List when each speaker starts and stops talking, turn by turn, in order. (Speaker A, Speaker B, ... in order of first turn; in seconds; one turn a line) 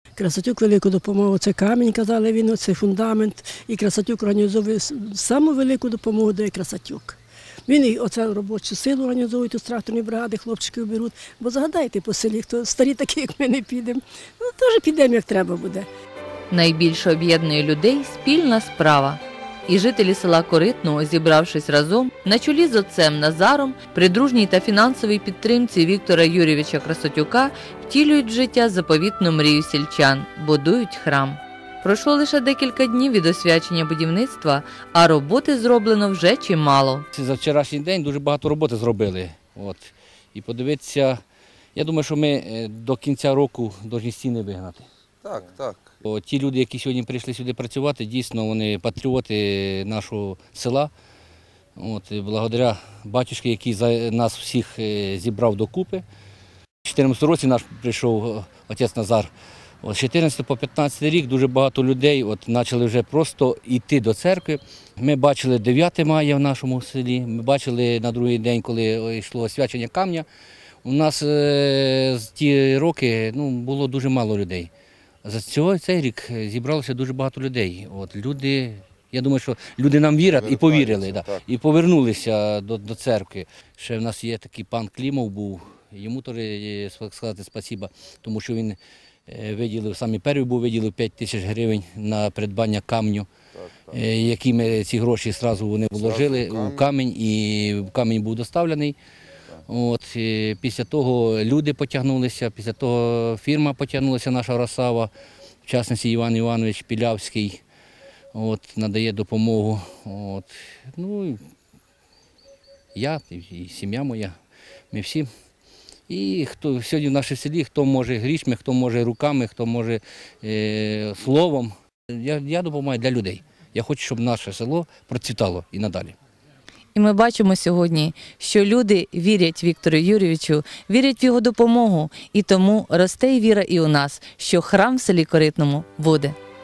Speaker A: 0.2-15.9
Speaker B: 16.5-37.1
Speaker C: 37.1-41.2
Speaker C: 41.8-44.9
Speaker D: 45.2-45.9
Speaker C: 46.0-50.9
Speaker C: 51.8-56.0
Speaker C: 56.8-59.3
Speaker C: 59.8-70.3
Speaker C: 70.8-74.7
Speaker C: 75.2-93.3
Speaker D: 80.2-81.5
Speaker D: 93.6-94.0
Speaker C: 93.9-99.0
Speaker D: 95.9-96.9
Speaker C: 99.7-105.1
Speaker C: 105.7-107.6
Speaker C: 108.3-111.4
Speaker C: 113.0-114.3
Speaker C: 114.9-115.3
Speaker C: 116.1-126.2
Speaker B: 127.0-136.4